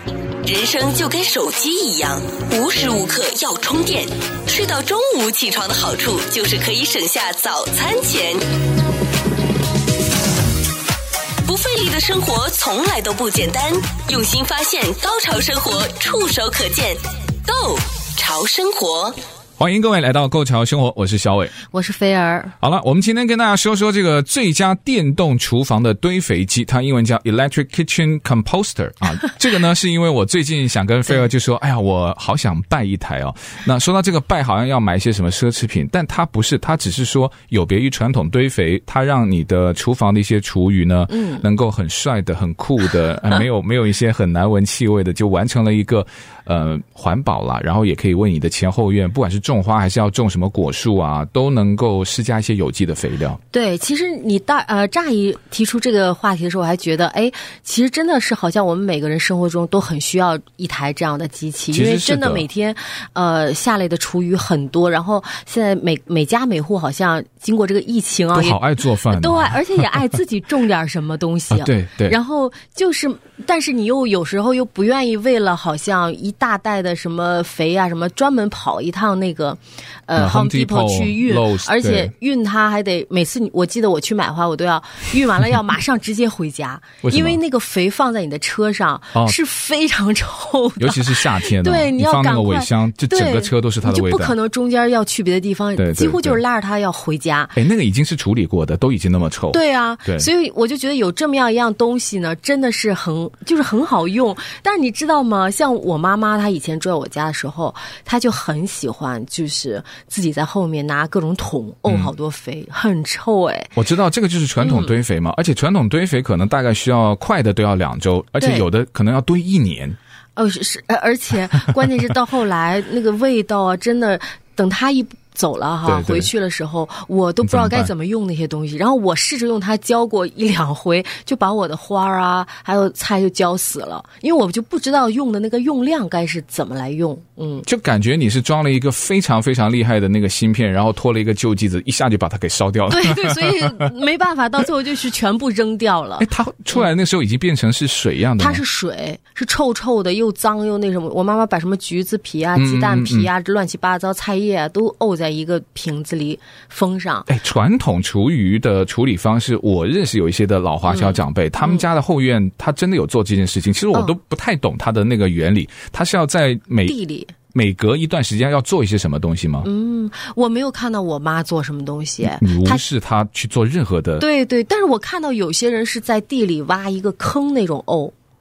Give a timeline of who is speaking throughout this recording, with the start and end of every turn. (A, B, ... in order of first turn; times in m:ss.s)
0:00.4-0:08.5 A
0:11.4-0:19.2 A
0:19.6-0:21.5 B
0:21.7-0:22.5 C
0:22.6-0:53.4 B
0:41.1-0:41.4 C
0:53.5-1:37.6 C
1:01.7-1:02.4 B
1:08.3-1:09.9 B
1:11.5-1:12.2 B
1:20.1-1:22.1 B
1:27.0-1:27.4 B
1:30.8-1:34.4 B
1:35.8-1:36.4 B
1:37.5-1:40.3 B
1:39.5-1:53.7 C
1:53.8-2:00.0 B
1:54.6-1:54.9 C
1:58.4-1:58.7 C
2:00.4-2:17.7 C
2:05.8-2:06.3 B
2:07.4-2:07.9 B
2:17.6-2:23.8 B
2:22.9-2:26.9 C
2:26.2-2:28.6 B
2:28.4-2:37.3 C
2:32.6-2:33.3 B
2:37.3-2:47.0 B
2:40.9-2:41.8 C
2:46.8-2:47.3 C
2:47.5-2:49.7 B
2:49.6-2:52.8 C
2:52.2-2:54.2 B
2:54.2-2:58.1 C